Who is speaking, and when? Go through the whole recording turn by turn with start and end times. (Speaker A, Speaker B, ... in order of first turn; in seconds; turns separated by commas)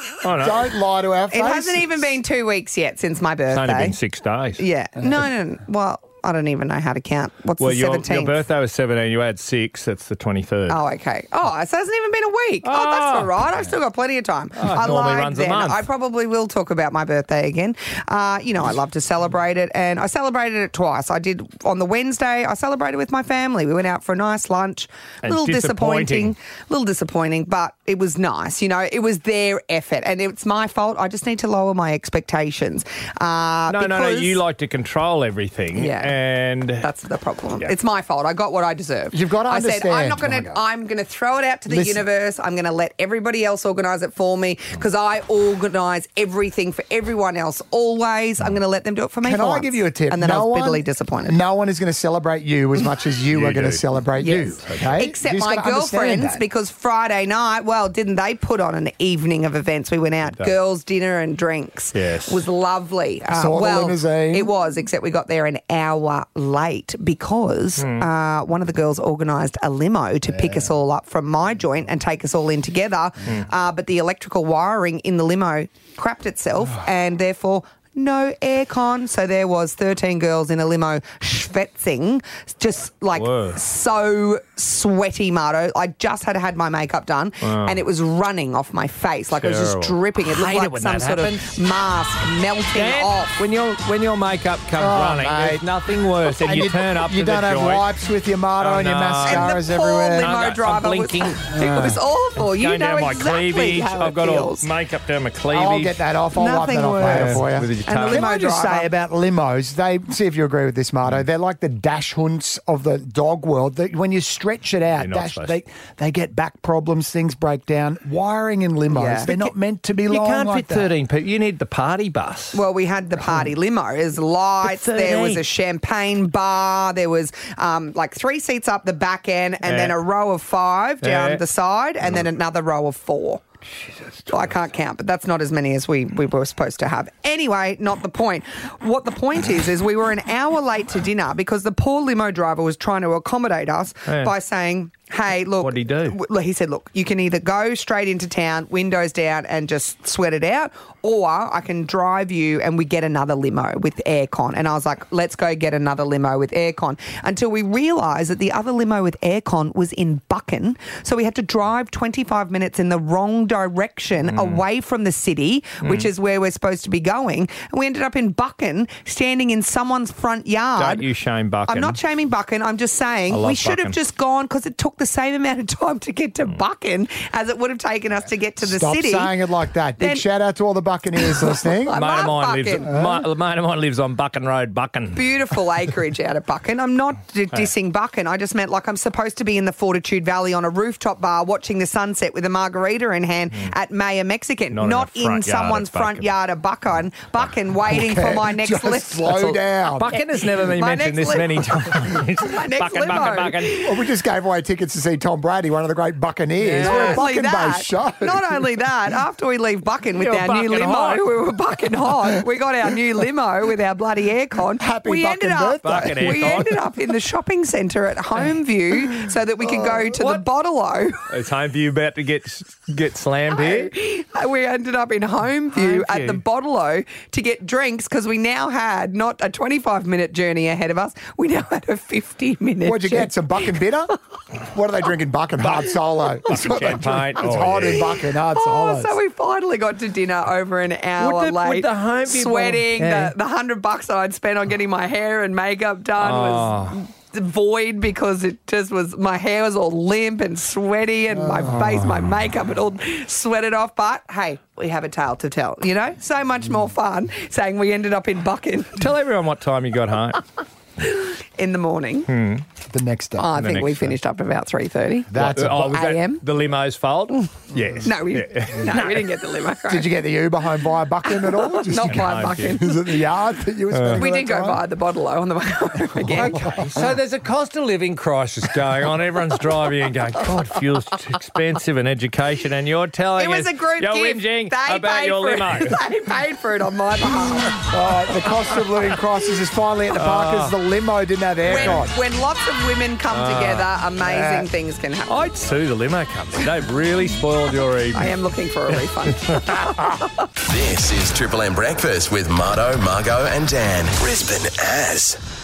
Speaker A: 0.2-0.7, Speaker B: 0.4-2.1, Speaker C: 1.3-4.0, Speaker A: 3.5-4.6, Speaker C: 4.6-8.3, Speaker B: 5.0-5.3, Speaker A: 7.6-10.8, Speaker C: 10.7-34.4, Speaker A: 12.6-13.3, Speaker A: 14.6-15.8, Speaker A: 25.2-26.3, Speaker A: 33.7-36.9, Speaker C: 35.7-36.2, Speaker C: 36.8-51.4, Speaker B: 39.1-40.6, Speaker B: 41.7-42.0, Speaker B: 49.2-56.5, Speaker A: 53.3-53.9, Speaker C: 54.2-93.4, Speaker A: 54.6-55.0, Speaker A: 60.2-60.5, Speaker A: 61.9-62.4, Speaker B: 63.3-64.5, Speaker A: 67.8-68.0, Speaker B: 70.2-70.7, Speaker A: 83.1-83.6, Speaker A: 87.4-87.8, Speaker A: 89.3-91.3, Speaker A: 92.7-97.8, Speaker B: 94.8-95.6, Speaker B: 96.2-100.3, Speaker A: 98.6-99.6, Speaker C: 99.2-104.7, Speaker A: 100.2-101.5, Speaker B: 101.5-102.0, Speaker A: 102.4-106.0, Speaker B: 105.5-120.9, Speaker C: 106.3-108.9, Speaker A: 107.0-108.2, Speaker A: 115.0-115.6, Speaker C: 118.9-119.3, Speaker A: 119.2-119.5, Speaker A: 120.1-122.6, Speaker C: 122.5-133.4, Speaker A: 124.7-125.4, Speaker A: 129.6-129.9, Speaker A: 131.0-131.4, Speaker A: 133.7-134.7, Speaker C: 134.3-171.0, Speaker A: 144.1-144.3, Speaker A: 145.6-146.2, Speaker A: 164.2-164.6, Speaker A: 170.8-172.0, Speaker C: 171.7-179.3, Speaker A: 173.3-173.9, Speaker B: 178.6-182.0, Speaker C: 180.0-180.2, Speaker C: 181.8-182.9, Speaker A: 181.9-185.2, Speaker B: 182.9-183.2, Speaker C: 185.1-199.5, Speaker A: 194.7-196.3, Speaker B: 197.8-200.1, Speaker A: 199.4-203.8, Speaker C: 200.5-203.9, Speaker B: 203.8-208.8, Speaker A: 206.6-207.2, Speaker C: 206.8-221.2, Speaker A: 210.2-211.3, Speaker B: 214.8-216.6, Speaker A: 215.8-216.7, Speaker B: 219.6-220.1, Speaker A: 220.1-220.4, Speaker A: 221.3-223.9, Speaker C: 223.5-233.3, Speaker A: 225.7-226.4, Speaker B: 232.8-234.1, Speaker B: 234.7-239.2, Speaker A: 235.6-235.9, Speaker A: 236.4-238.1, Speaker C: 238.5-259.1, Speaker A: 241.2-243.3, Speaker A: 246.2-247.0, Speaker B: 251.3-252.3, Speaker A: 258.9-260.4, Speaker C: 261.0-262.3, Speaker A: 262.3-262.6, Speaker B: 262.9-263.6, Speaker C: 263.4-266.4, Speaker A: 263.6-264.1, Speaker B: 265.3-266.1, Speaker A: 265.3-269.2, Speaker B: 267.7-268.1, Speaker C: 268.0-270.1, Speaker B: 269.9-274.8, Speaker C: 271.3-273.2, Speaker A: 272.0-272.8, Speaker A: 273.9-274.3, Speaker C: 274.1-276.9, Speaker A: 276.2-286.0, Speaker B: 276.3-277.1, Speaker C: 283.4-287.9, Speaker B: 287.8-292.2, Speaker A: 290.1-290.7, Speaker A: 291.6-292.0, Speaker C: 291.7-295.5, Speaker A: 293.3-293.9, Speaker B: 294.2-294.7, Speaker A: 295.3-298.3, Speaker C: 298.1-300.4, Speaker D: 300.7-305.4